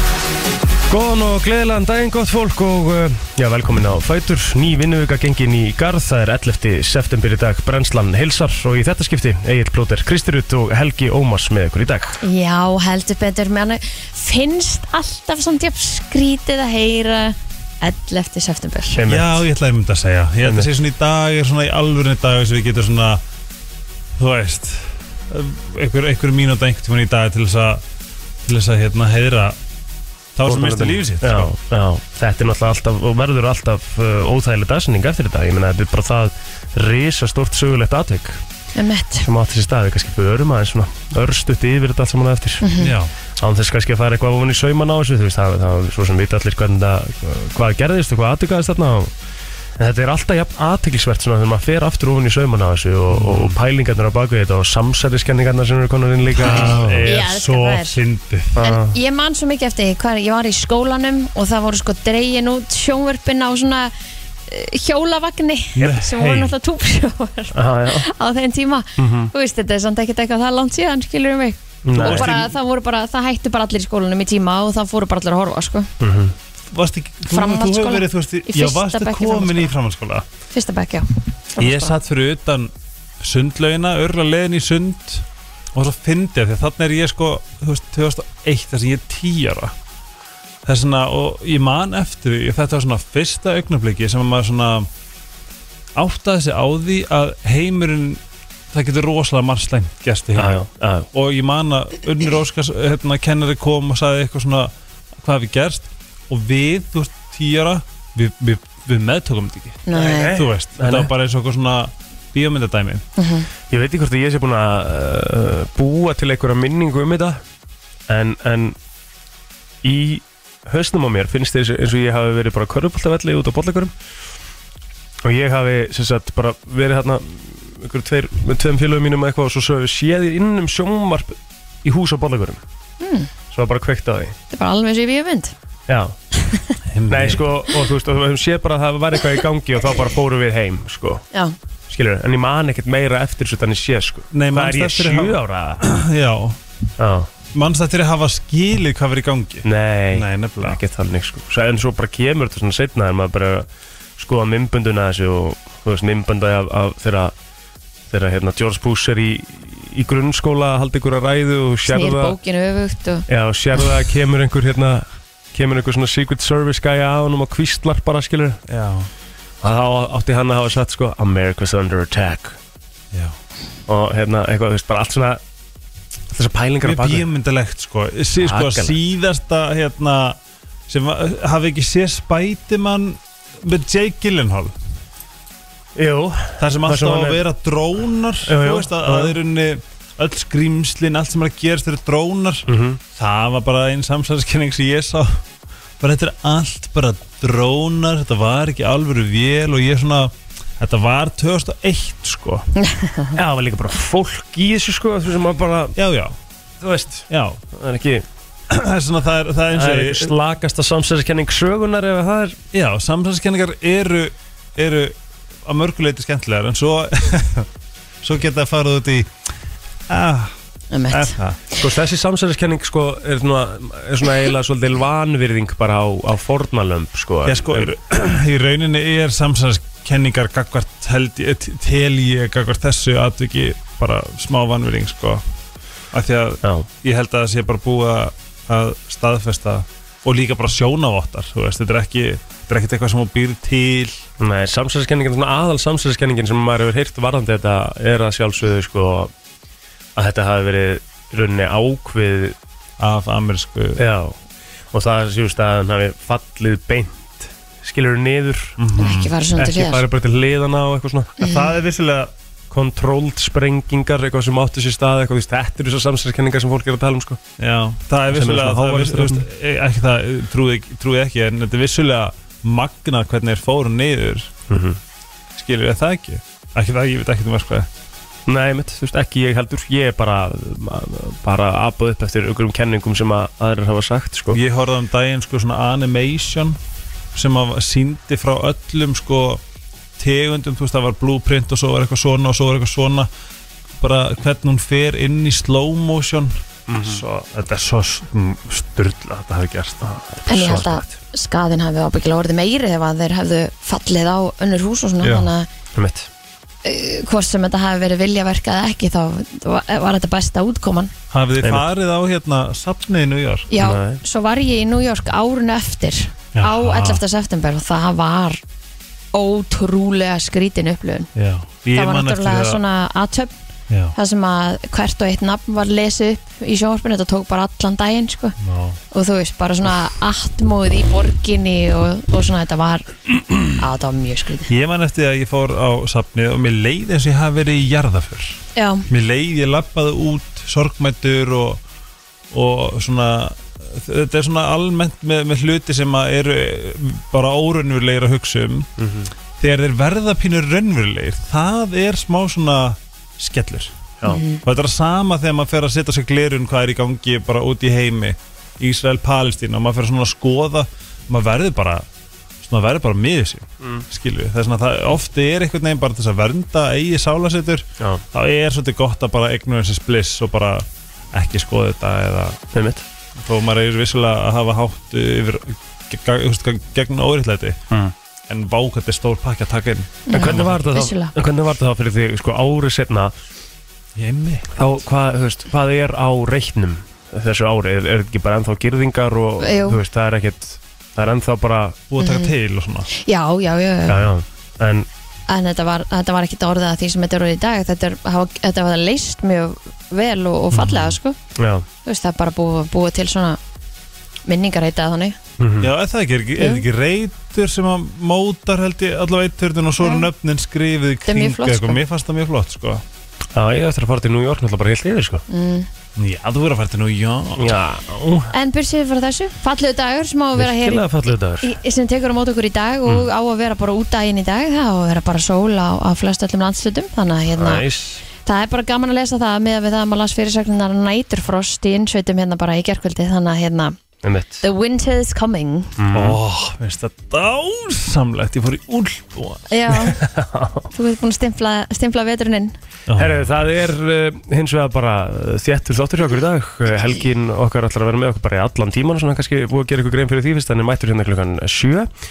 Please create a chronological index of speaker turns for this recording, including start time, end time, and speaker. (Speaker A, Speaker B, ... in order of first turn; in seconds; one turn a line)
Speaker A: 0.9-12.2
Speaker B: 12.2-18.9
Speaker A: 18.9-19.4
Speaker C: 19.1-23.2
Speaker C: 24.1-27.8
Speaker C: 28.4-29.6
Speaker C: 30.3-31.5
Speaker A: 30.4-38.4
Speaker B: 38.7-39.3
Speaker A: 39.2-42.6
Speaker B: 42.6-42.9
Speaker C: 42.8-43.1
Speaker A: 43.4-49.1
Speaker A: 49.8-57.0
Speaker C: 53.1-53.6
Speaker C: 56.3-58.6
Speaker B: 56.4-58.0
Speaker A: 58.5-58.9
Speaker B: 58.6-63.9
Speaker B: 64.5-75.9
Speaker C: 65.8-66.5
Speaker A: 67.5-68.0
Speaker A: 69.0-69.3
Speaker A: 71.8-72.3
Speaker C: 72.0-72.5
Speaker A: 76.0-76.3
Speaker C: 76.7-80.2
Speaker B: 77.3-79.7
Speaker B: 80.5-81.9
Speaker C: 81.6-89.7
Speaker C: 90.6-94.9
Speaker C: 95.9-113.0
Speaker A: 100.3-101.1
Speaker B: 109.8-110.3
Speaker A: 109.9-111.1
Speaker B: 113.2-113.5
Speaker A: 113.7-117.4
Speaker A: 118.1-118.8
Speaker A: 119.8-123.9
Speaker A: 125.2-132.6
Speaker B: 133.0-133.3
Speaker A: 133.5-134.3
Speaker B: 134.5-135.5
Speaker A: 135.9-136.1
Speaker C: 136.9-137.4
Speaker A: 137.1-141.2
Speaker A: 141.9-145.8
Speaker C: 144.3-146.6
Speaker A: 147.0-147.3
Speaker C: 147.5-150.8
Speaker A: 149.6-157.3
Speaker A: 158.1-162.3
Speaker B: 161.8-163.2
Speaker A: 163.3-168.6
Speaker C: 168.7-169.1
Speaker A: 169.6-172.6
Speaker A: 173.9-175.4
Speaker A: 176.3-177.2
Speaker C: 176.8-184.7
Speaker A: 178.4-179.0
Speaker A: 185.9-187.4
Speaker C: 186.6-195.4
Speaker A: 188.5-189.3
Speaker A: 192.7-193.0
Speaker C: 196.0-202.7
Speaker B: 202.8-203.3
Speaker A: 203.3-205.9
Speaker C: 205.9-206.3
Speaker A: 206.8-208.2
Speaker C: 207.3-207.6
Speaker C: 208.7-210.3
Speaker A: 209.7-212.6
Speaker C: 212.7-217.7
Speaker C: 218.2-219.3
Speaker C: 220.1-220.5
Speaker B: 220.9-221.3
Speaker C: 221.1-221.6
Speaker A: 221.8-227.9
Speaker C: 227.4-235.4
Speaker C: 236.1-244.2
Speaker A: 244.4-249.3
Speaker A: 250.2-252.6
Speaker C: 253.0-254.0
Speaker A: 254.0-254.4
Speaker A: 254.9-258.8
Speaker C: 258.8-259.3
Speaker B: 259.0-260.0
Speaker A: 259.6-261.4
Speaker C: 261.4-262.3
Speaker A: 262.7-267.4
Speaker C: 267.6-274.5
Speaker A: 268.3-269.4
Speaker A: 274.7-275.0
Speaker C: 275.5-277.9
Speaker A: 278.5-284.6
Speaker C: 284.5-286.8
Speaker C: 287.3-289.6
Speaker C: 290.2-293.3
Speaker C: 294.0-301.1
Speaker A: 296.9-297.2
Speaker B: 300.5-305.7
Speaker C: 305.2-305.5
Speaker A: 305.9-306.3
Speaker B: 306.8-311.1
Speaker C: 311.3-313.7
Speaker B: 313.7-318.6
Speaker A: 313.8-314.2
Speaker C: 316.5-317.2
Speaker B: 319.3-321.3
Speaker C: 321.3-322.8
Speaker B: 321.9-323.5
Speaker C: 323.9-324.1
Speaker B: 324.1-328.6
Speaker C: 328.6-329.0
Speaker B: 329.1-333.1
Speaker B: 333.7-334.7
Speaker C: 334.7-341.8
Speaker B: 338.8-339.1
Speaker C: 342.5-348.9
Speaker A: 349.0-349.3
Speaker C: 349.6-353.9
Speaker B: 354.3-354.6
Speaker C: 354.6-362.1
Speaker C: 362.6-372.6
Speaker A: 372.7-373.0
Speaker C: 373.4-377.8
Speaker C: 378.5-380.8
Speaker B: 380.3-381.3
Speaker A: 380.3-383.3
Speaker C: 384.1-384.7
Speaker A: 384.7-392.0
Speaker B: 389.6-390.0
Speaker C: 392.1-393.1
Speaker B: 392.2-392.5
Speaker B: 393.1-394.2
Speaker A: 394.1-395.1
Speaker B: 395.5-401.4
Speaker C: 400.7-401.2
Speaker A: 401.6-401.9
Speaker B: 402.0-403.6
Speaker B: 404.4-405.4
Speaker A: 405.6-405.9
Speaker C: 405.8-413.0
Speaker B: 406.6-406.8
Speaker B: 410.0-410.3
Speaker B: 411.3-412.0
Speaker A: 413.5-415.4
Speaker B: 415.5-415.9
Speaker C: 416.2-417.8
Speaker A: 417.6-418.5
Speaker B: 418.5-421.1
Speaker A: 420.6-421.7
Speaker B: 421.6-427.8
Speaker A: 427.6-428.2
Speaker B: 428.4-433.9
Speaker A: 434.2-434.6
Speaker B: 434.6-435.9
Speaker A: 436.0-436.4
Speaker C: 436.1-439.6
Speaker B: 439.7-440.2
Speaker A: 440.0-440.9
Speaker B: 440.9-442.8
Speaker C: 443.1-443.5
Speaker A: 443.1-452.1